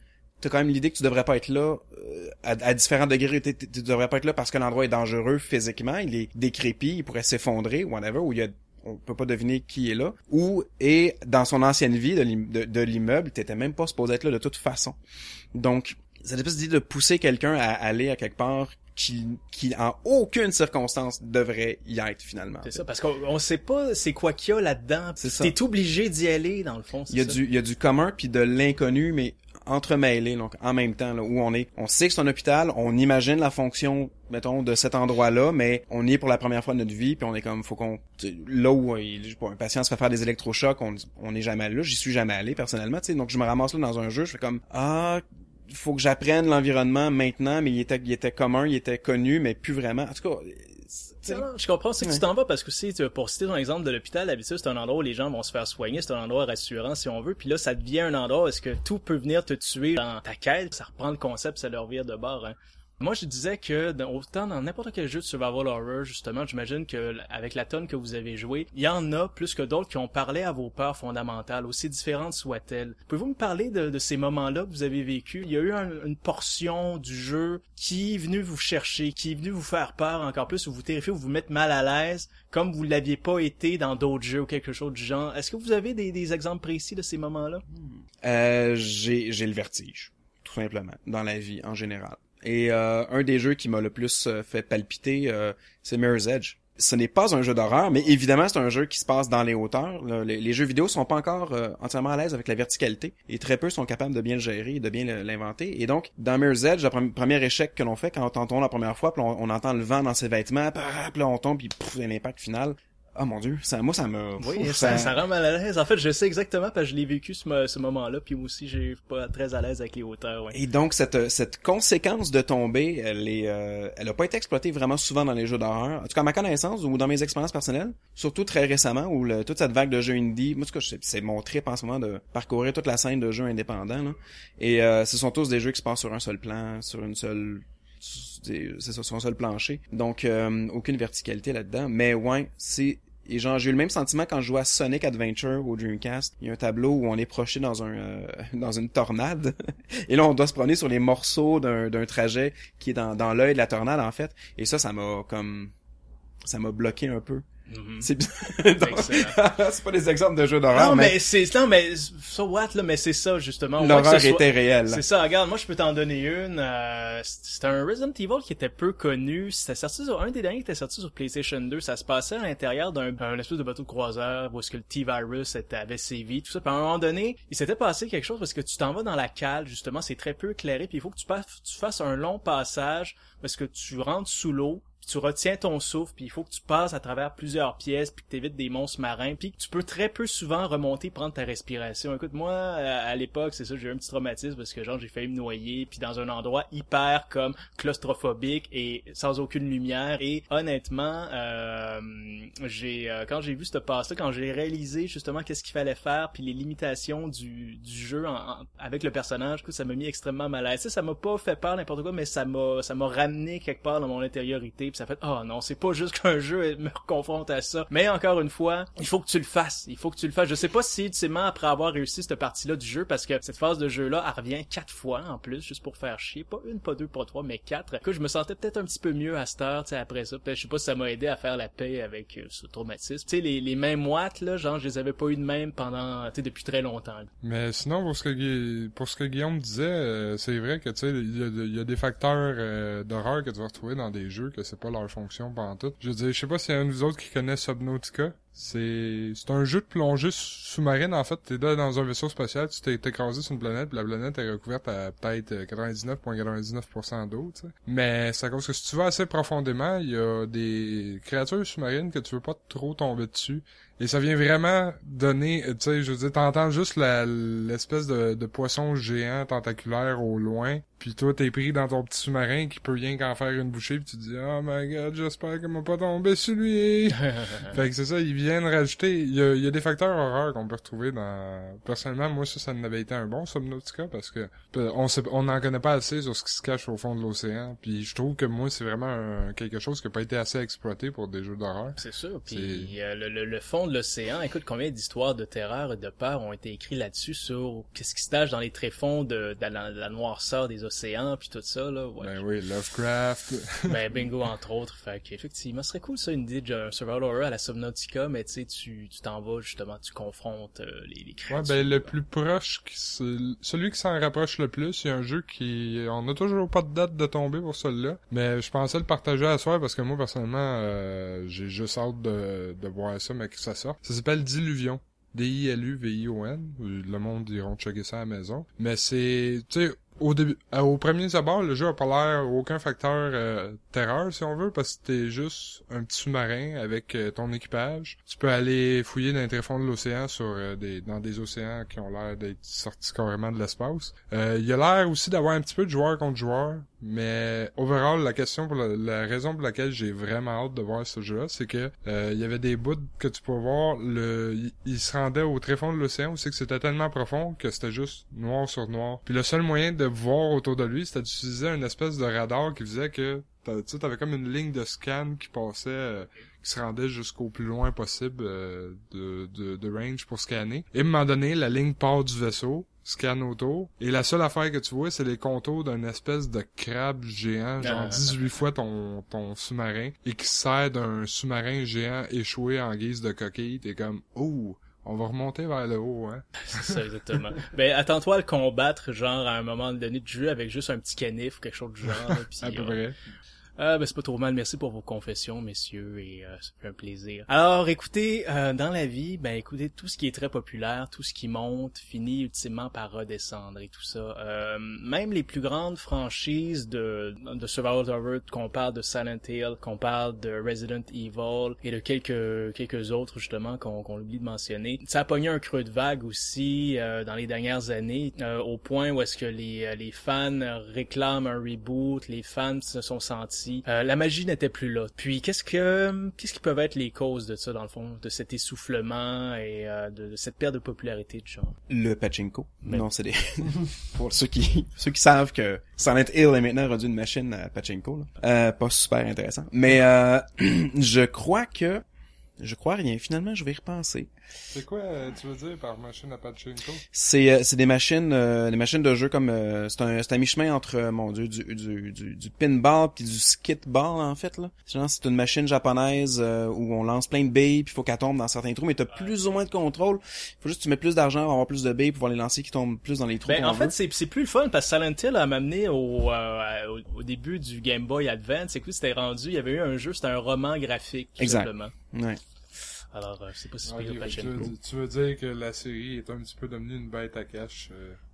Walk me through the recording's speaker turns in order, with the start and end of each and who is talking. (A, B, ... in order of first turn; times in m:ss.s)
0:00.4-0:15.0 A
0:15.6-0:22.8 A
0:22.6-0:27.4 B
0:25.2-0:25.5 A
0:27.1-0:51.5 A
0:51.3-1:27.6 B
1:28.2-1:55.2 A
1:54.4-2:00.6 B
2:00.5-2:35.7 A
2:36.4-2:37.4 A
2:37.7-2:39.4 B
2:38.0-2:41.2 A
2:40.7-3:57.3 B
2:43.8-2:45.0 A
3:57.4-4:52.9 C
4:37.2-4:37.8 B
4:52.0-5:02.4 B
5:02.2-5:04.0 C
5:03.9-5:12.1 B
5:11.5-6:27.5 C
6:17.8-6:18.3 B
6:26.6-6:33.0 B
6:32.2-6:33.2 C
6:33.8-7:11.8 B
7:11.9-7:22.0 A
7:12.8-7:13.1 B
7:22.6-7:24.3 A
7:24.7-7:27.0 C
7:27.1-7:44.0 A
7:43.5-7:51.9 B
7:51.4-7:52.4 A
7:53.1-7:54.7 B
7:53.9-7:58.2 C